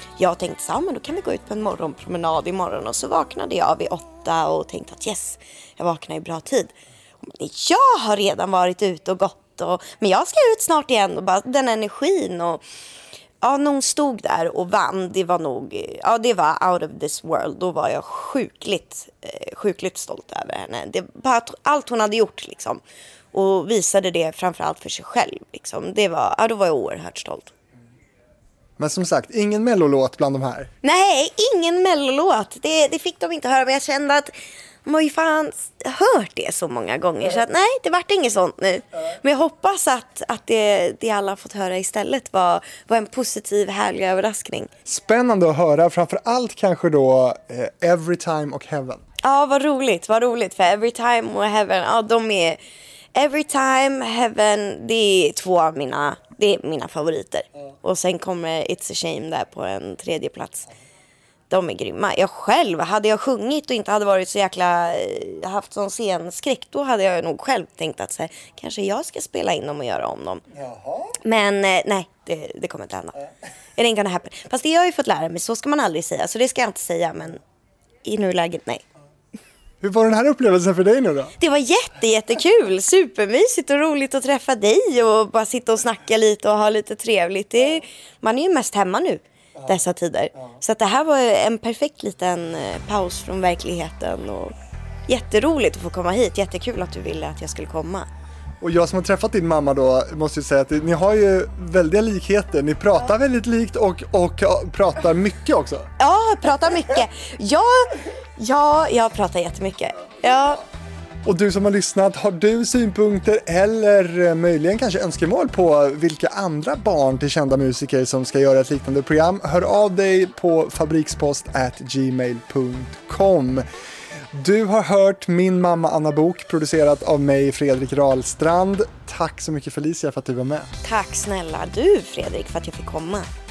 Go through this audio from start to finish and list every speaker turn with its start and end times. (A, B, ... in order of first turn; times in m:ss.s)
0:00.2-0:12.6 A
0:13.4-0:22.8 A
0:23.3-0:27.5 A
0:28.8-0:30.7 B
0:30.8-0:34.3 A
0:34.8-0:44.7 A
0:44.9-0:49.0 B
0:49.2-0:52.6 A
0:53.1-1:00.7 A
1:01.5-1:10.4 A
1:10.5-1:11.2 B
1:11.2-1:17.4 A
1:18.0-1:18.8 A
1:19.8-1:21.3 B
1:21.4-1:34.5 A
1:35.1-1:38.1 A
1:38.6-1:45.9 B
1:46.0-1:50.6 A
1:51.2-2:03.6 B
2:04.3-2:10.7 B
2:10.8-2:13.3 A